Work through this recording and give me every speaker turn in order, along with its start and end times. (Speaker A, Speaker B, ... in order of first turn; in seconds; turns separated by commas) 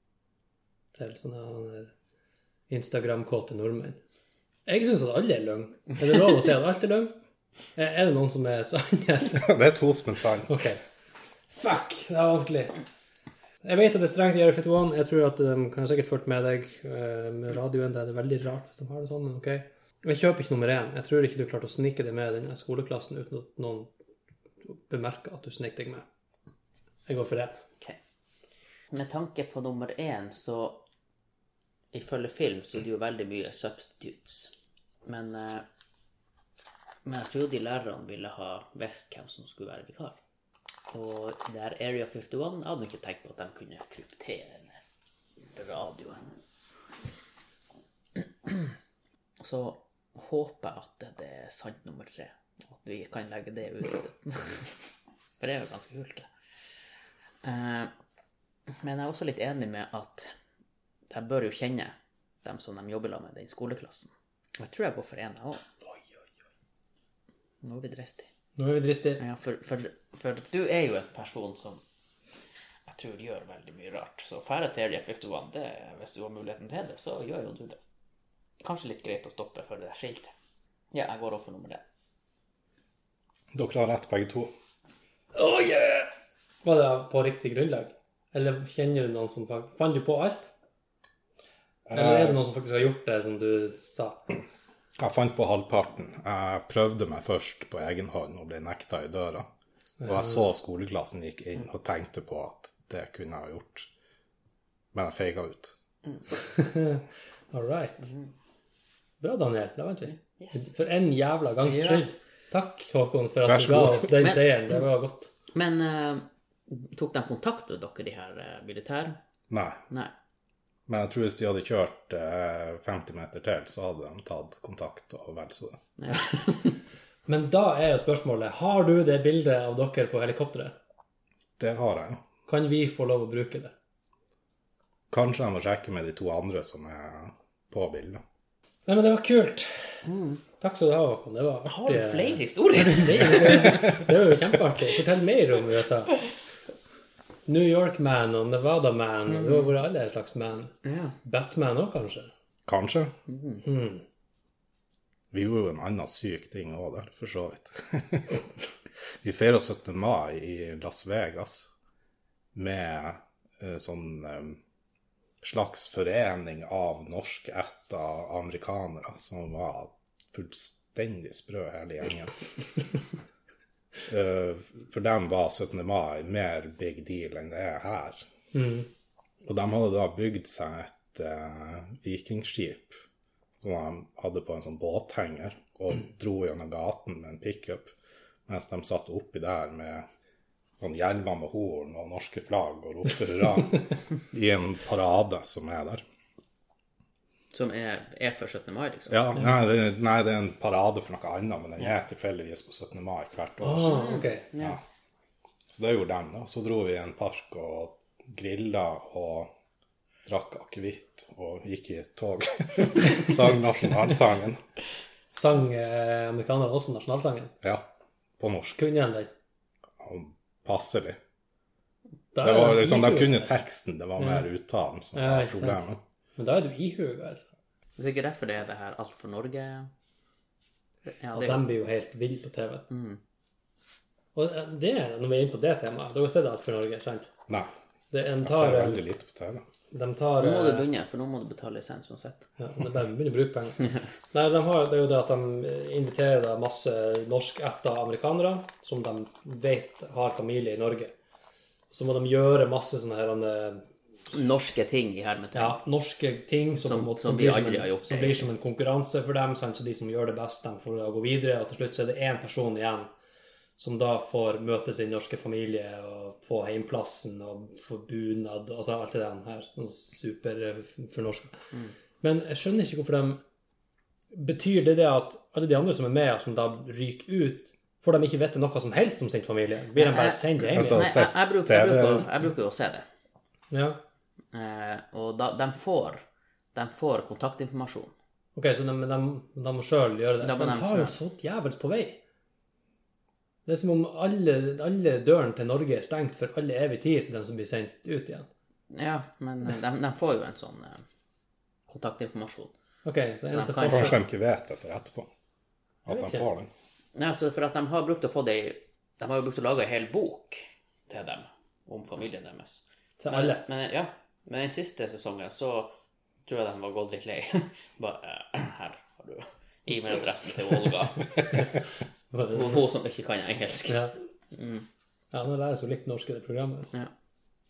Speaker A: 0.9-1.9, Speaker A: 2.7-4.0, Speaker A: 4.7-7.2, Speaker A: 7.8-9.5, Speaker B: 9.4-10.6, Speaker A: 10.5-10.8, Speaker A: 11.5-12.7, Speaker A: 13.6-23.9, Speaker A: 24.6-26.1, Speaker A: 27.1-27.6, Speaker C: 28.9-30.8, Speaker C: 31.9-34.5, Speaker C: 35.0-35.6, Speaker C: 37.0-40.2, Speaker C: 40.9-44.8, Speaker C: 45.5-46.4, Speaker C: 48.2-48.7, Speaker C: 49.4-54.8, Speaker C: 55.4-56.3, Speaker C: 57.4-57.9, Speaker C: 58.8-60.3, Speaker C: 61.1-65.6, Speaker A: 65.9-66.2, Speaker C: 67.6-68.3, Speaker A: 68.6-69.2, Speaker C: 69.2-71.8, Speaker C: 72.8-77.8, Speaker C: 78.6-80.3, Speaker C: 80.9-81.8, Speaker B: 83.5-84.5, Speaker A: 85.3-86.1, Speaker A: 86.6-90.5, Speaker B: 91.9-92.4, Speaker A: 91.9-94.2, Speaker B: 95.0-99.5, Speaker B: 100.0-103.9, Speaker B: 104.9-105.7, Speaker A: 106.4-108.1, Speaker C: 108.0-108.3, Speaker A: 109.2-115.3, Speaker C: 110.1-110.7, Speaker C: 111.6-112.0, Speaker B: 113.4-114.1, Speaker C: 114.2-114.6, Speaker C: 115.5-119.2, Speaker B: 119.5-119.8, Speaker B: 120.9-125.8, Speaker C: 126.0-126.8, Speaker A: 127.3-130.7, Speaker B: 131.6-132.2, Speaker A: 132.5-133.7, Speaker B: 135.1-138.2, Speaker A: 138.8-139.8, Speaker C: 140.0-140.4, Speaker A: 140.6-146.1, Speaker C: 141.7-143.9, Speaker A: 147.5-152.3, Speaker C: 149.3-149.7, Speaker C: 150.8-151.2, Speaker B: 152.7-153.2, Speaker C: 153.3-153.6, Speaker A: 153.6-154.0, Speaker B: 155.3-158.5, Speaker B: 159.2-161.7, Speaker B: 162.5-164.6, Speaker B: 165.4-172.3, Speaker B: 174.1-178.2, Speaker A: 178.5-178.9, Speaker B: 179.4-183.0, Speaker B: 183.6-187.9, Speaker B: 188.5-190.1, Speaker B: 190.8-196.0, Speaker C: 197.5-199.3, Speaker B: 199.1-204.0, Speaker A: 203.6-204.5, Speaker C: 203.9-204.8, Speaker B: 205.7-209.5, Speaker B: 210.2-214.6, Speaker A: 215.3-217.5, Speaker B: 218.4-218.8, Speaker A: 218.8-219.3, Speaker B: 220.0-221.2, Speaker A: 222.3-223.6, Speaker B: 222.4-226.0, Speaker A: 225.1-227.5, Speaker C: 228.0-229.9, Speaker C: 231.2-231.7, Speaker A: 231.3-232.9, Speaker C: 232.9-233.2, Speaker A: 234.3-237.3, Speaker A: 238.1-239.0, Speaker B: 238.4-239.6, Speaker A: 239.9-240.8, Speaker C: 240.4-242.5, Speaker A: 242.6-251.1, Speaker A: 251.9-253.8, Speaker C: 254.3-255.8, Speaker A: 255.5-263.1, Speaker C: 256.8-258.5, Speaker A: 263.8-271.7, Speaker A: 272.2-273.4, Speaker A: 274.3-281.0, Speaker C: 279.9-283.1, Speaker B: 280.7-282.3, Speaker A: 283.7-284.0, Speaker C: 284.5-288.1, Speaker A: 288.6-292.2, Speaker C: 290.4-291.1, Speaker A: 293.6-298.5, Speaker C: 298.9-301.0, Speaker C: 301.9-302.7, Speaker A: 303.0-304.2, Speaker C: 303.5-304.1, Speaker B: 303.9-305.3, Speaker A: 306.1-306.5, Speaker B: 306.1-306.7, Speaker C: 307.1-315.9, Speaker A: 313.2-313.6, Speaker C: 316.4-321.7, Speaker A: 322.3-322.8, Speaker C: 322.5-324.9, Speaker A: 325.3-326.9